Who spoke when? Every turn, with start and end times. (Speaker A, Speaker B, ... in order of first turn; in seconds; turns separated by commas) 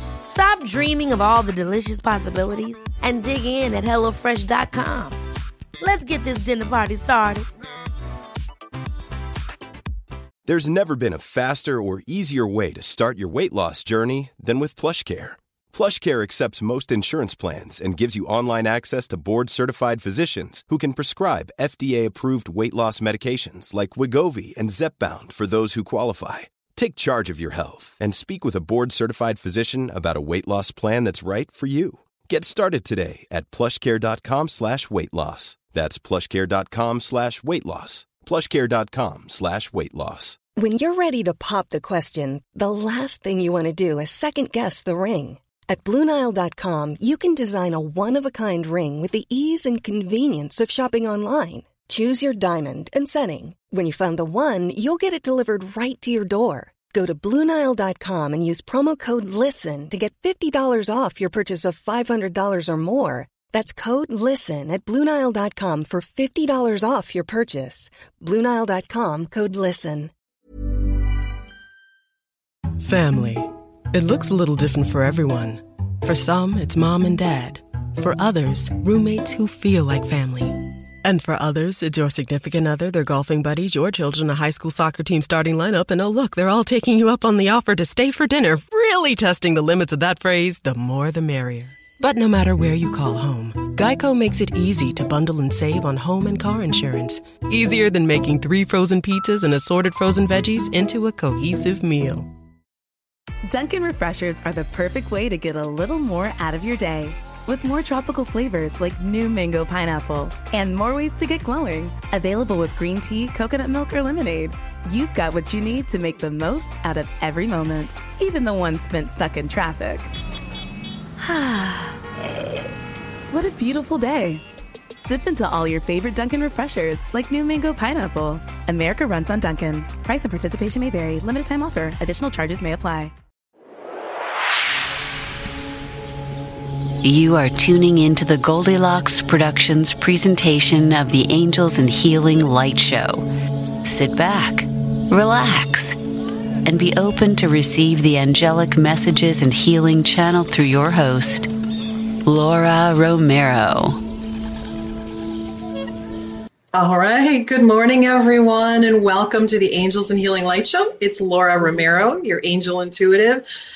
Speaker A: 0.3-5.2, Speaker A: 5.8-7.5, Speaker B: 10.4-40.4, Speaker C: 40.6-70.1, Speaker D: 72.8-102.3, Speaker E: 103.4-120.1, Speaker E: 121.2-122.7, Speaker E: 123.3-124.4, Speaker E: 125.0-133.1, Speaker F: 137.0-143.2, Speaker F: 143.8-146.0, Speaker F: 146.7-151.5, Speaker F: 152.3-154.0, Speaker G: 156.7-163.4